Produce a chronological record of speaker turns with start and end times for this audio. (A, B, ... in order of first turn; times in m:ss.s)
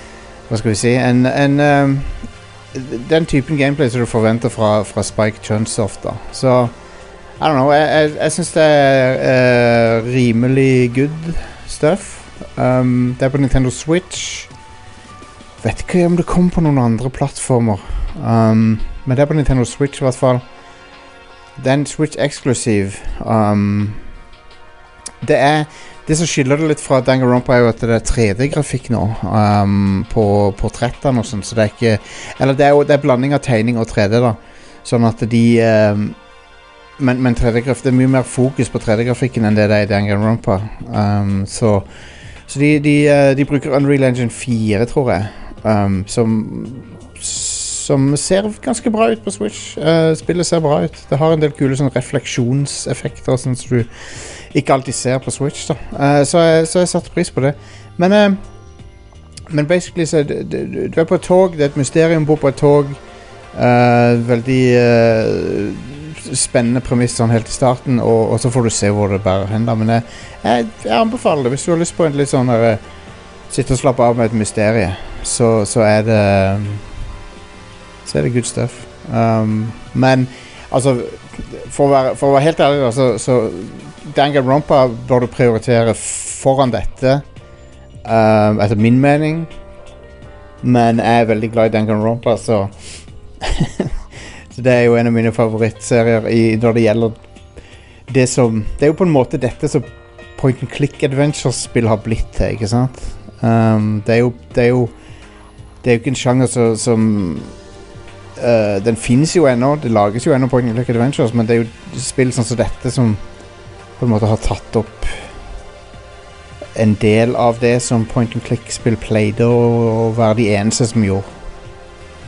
0:00.5-0:06.7 A
0:07.4-0:14.5 A
0:15.6-0:20.4 A
0:21.6-0:24.0 A
0:25.2-0:36.2 A
0:37.0-0:41.8 A
0:42.5-0:58.4 A
0:59.5-1:03.0 A
1:03.5-1:12.8 A
1:13.5-1:16.9 A
1:18.0-1:27.2 A
1:28.0-1:29.5 A
1:30.6-1:32.7 A
1:33.4-1:34.0 A
1:34.5-1:37.2 A
1:38.1-1:44.9 A
1:45.8-1:47.5 A
1:48.4-1:53.2 A
1:54.0-1:55.2 A
1:56.7-2:01.3 A